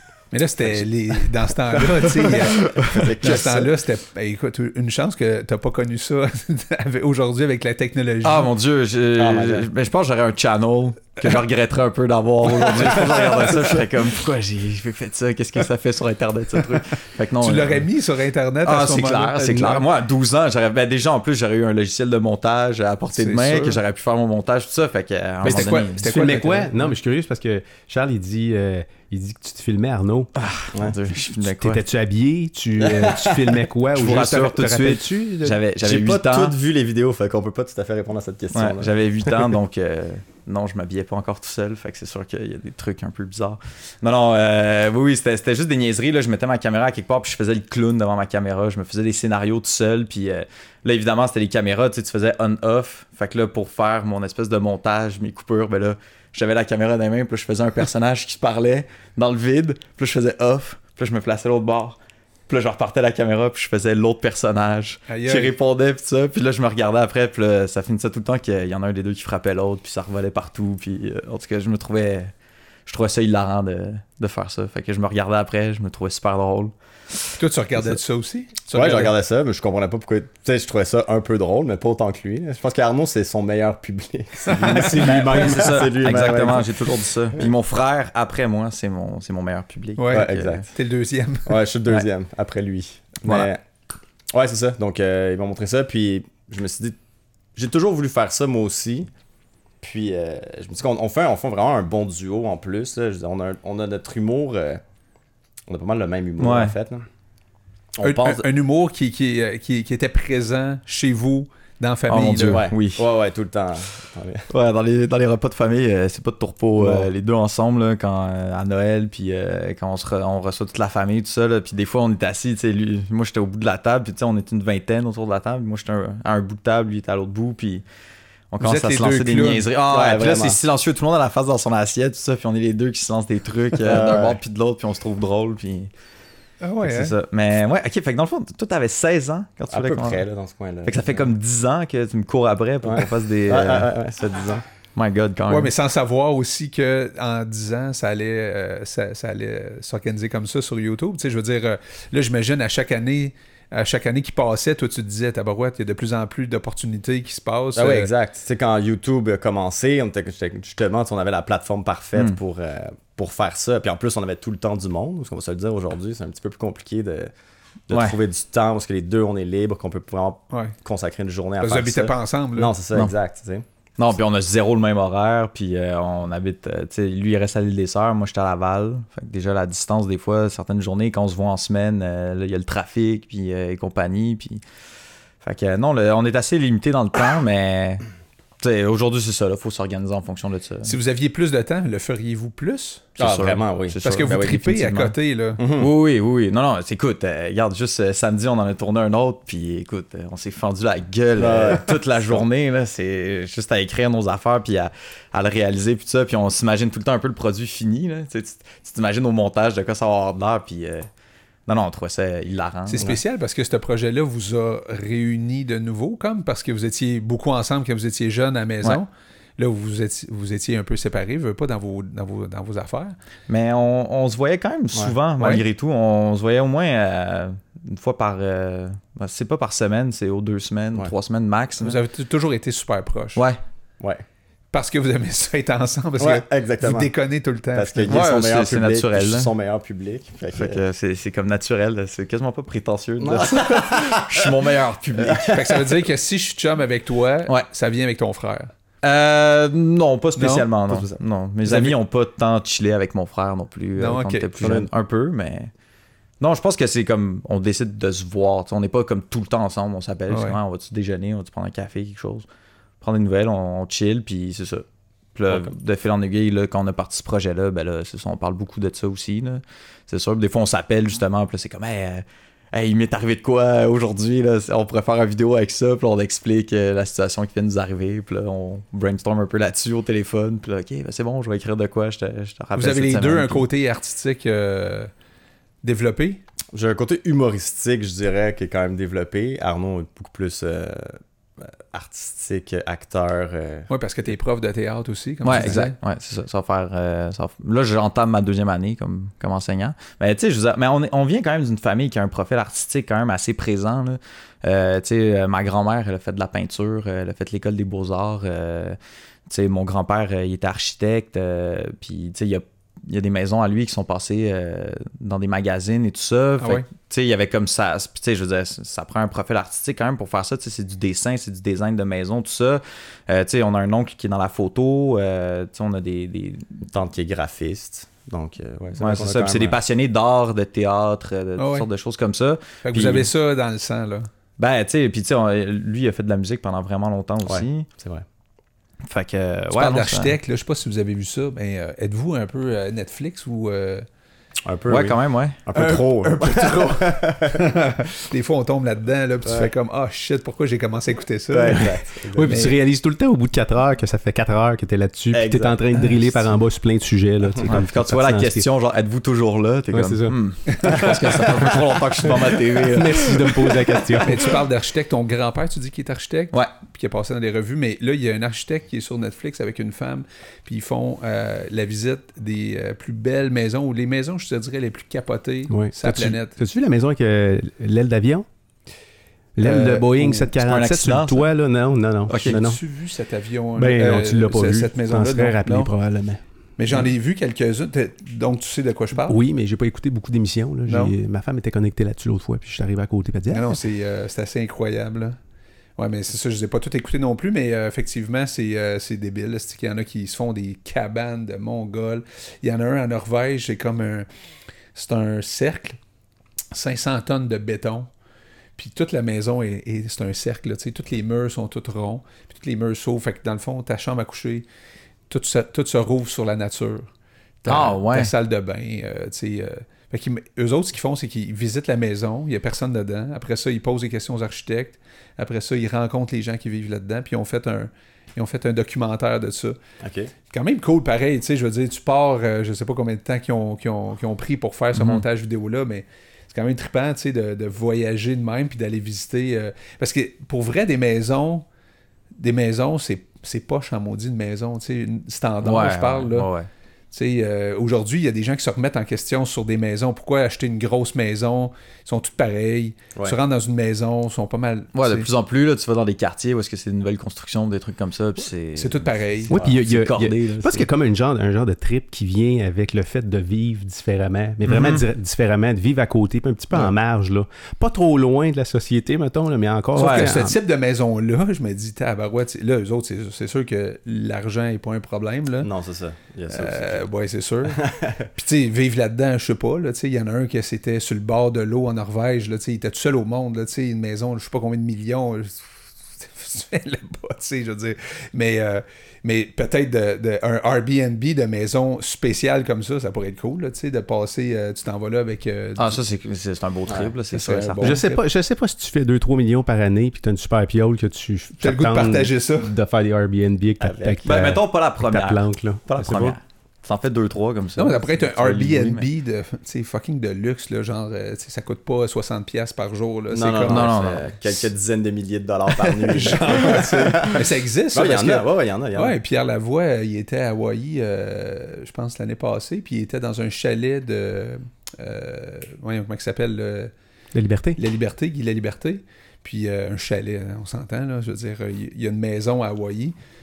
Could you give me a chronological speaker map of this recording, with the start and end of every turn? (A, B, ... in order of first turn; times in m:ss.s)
0:00.3-0:02.6 A
0:00.6-0:01.3 B
0:01.9-0:03.7 B
0:02.8-0:03.1 C
0:03.2-0:08.5 A
0:08.2-0:17.8 C
0:09.2-0:09.7 B
0:12.8-0:13.5 B
0:17.4-0:19.8 A
0:18.6-0:26.0 C
0:23.1-0:23.8 A
0:25.4-0:26.9 A
0:25.4-0:30.3 D
0:30.4-0:31.8 C
0:31.4-0:35.6 D
0:32.8-0:33.6 B
0:33.9-0:36.6 C
0:35.8-0:39.4 B
0:38.5-1:12.3 C
1:05.1-1:05.5 A
1:12.8-1:16.7 C
1:17.4-1:19.1 A
1:18.7-1:26.9 B
1:24.4-1:25.0 A
1:24.6-1:25.8 D
1:25.0-1:30.7 C
1:30.0-1:31.6 A
1:30.1-1:30.7 B
1:31.4-1:33.6 B
1:33.2-1:33.5 C
1:34.3-1:37.0 B
1:37.6-1:39.1 B
1:39.8-1:44.8 B
1:45.7-1:47.0 B
1:46.4-1:46.7 C
1:48.0-1:48.4 B
1:48.0-1:52.7 A
1:52.1-1:53.0 C
1:52.4-1:54.5 B
1:54.5-2:07.8 C
1:56.8-1:57.1 B
2:08.5-2:15.9 C
2:08.6-2:09.7 A
2:09.9-2:10.6 B
2:13.8-2:14.4 B
2:16.6-2:17.1 A
2:16.8-2:20.2 C
2:19.7-2:21.3 B
2:20.8-2:23.9 C
2:22.8-2:24.6 B
2:25.0-2:25.7 C
2:25.5-2:38.1 A
2:37.8-2:47.3 B
2:47.9-2:53.6 B
2:47.9-2:48.2 C
2:51.6-2:52.7 A
2:54.0-3:04.6 C
3:05.4-3:08.0 C
3:08.6-3:10.9 C
3:10.8-3:13.1 A
3:13.2-3:15.2 C
3:13.2-3:14.6 B
3:14.0-3:15.6 A
3:15.6-3:15.9 B
3:15.8-3:31.1 C
3:21.4-3:22.4 B
3:31.7-3:33.2 C
3:32.9-3:43.1 A
3:43.5-3:52.0 C
3:45.4-3:45.6 A
3:51.8-3:53.4 A
3:54.0-3:54.2 B
3:54.7-3:58.2 A
3:56.2-3:57.1 B
3:57.7-4:00.8 B
3:58.1-3:59.5 C
4:00.5-4:05.6 C
4:03.2-4:04.5 B
4:05.2-4:05.8 B
4:05.4-4:08.7 A
4:09.0-4:15.7 C
4:10.4-4:11.0 A
4:11.7-4:11.9 A
4:14.0-4:14.7 A
4:14.6-4:14.9 B
4:16.4-4:22.4 C
4:20.3-4:20.6 A
4:23.0-4:24.8 C
4:25.4-4:43.7 C
4:42.8-4:45.1 A
4:45.8-4:46.4 A
4:46.7-4:53.9 B
4:53.9-4:56.0 A
4:55.4-5:26.8 C
5:16.6-5:16.8 A
5:26.9-5:29.8 B
5:29.0-5:33.3 C
5:31.6-5:31.9 A
5:32.8-5:34.3 A
5:34.6-5:37.9 C
5:37.4-5:38.2 B
5:39.0-5:40.4 C
5:39.7-5:44.0 A
5:44.6-5:47.6 B
5:44.9-5:45.6 C
5:45.7-5:52.8 A
5:49.4-5:49.7 B
5:51.5-5:52.5 B
5:51.7-5:58.7 D
5:55.3-5:55.8 B
5:57.6-6:04.0 C
5:59.9-6:00.4 D
6:00.7-6:01.4 A
6:01.4-6:01.7 D
6:02.2-6:04.5 D
6:04.2-6:16.6 A
6:15.7-6:18.4 D
6:19.6-6:22.8 D
6:19.6-6:20.5 A
6:20.6-6:21.5 C
6:22.3-6:22.5 C
6:22.4-6:25.9 A
6:23.8-6:26.4 D
6:26.8-6:29.4 A
6:29.3-6:33.8 D
6:30.9-6:31.1 A
6:33.5-6:35.4 A
6:36.0-6:44.3 A
6:44.9-6:46.0 A
6:46.7-6:48.1 A
6:48.8-6:54.6 A
6:55.3-6:57.1 A
6:57.6-7:09.8 A
6:57.7-6:58.3 C
7:10.0-7:10.3 B
7:10.5-7:21.6 A
7:14.9-7:15.2 C
7:22.4-7:26.5 A
7:25.6-7:26.7 C
7:27.1-7:35.3 A
7:34.9-7:40.9 C
7:38.7-7:39.6 A
7:39.5-7:50.6 D
7:44.6-7:45.0 C
7:49.9-7:50.4 C
7:49.9-7:55.7 A
7:55.6-7:57.0 B
7:56.5-8:05.6 A
7:57.7-7:58.3 B
8:06.2-8:16.0 A
8:15.8-8:18.0 C
8:16.9-8:17.1 B
8:17.3-8:18.2 A
8:17.8-8:26.4 D
8:21.6-8:22.7 A
8:23.8-8:24.3 B
8:24.2-8:29.1 C
8:27.8-8:33.9 A
8:33.3-8:39.2 B
8:33.7-8:34.3 C
8:35.8-8:46.9 A
8:47.3-8:47.8 D
8:47.8-8:53.1 A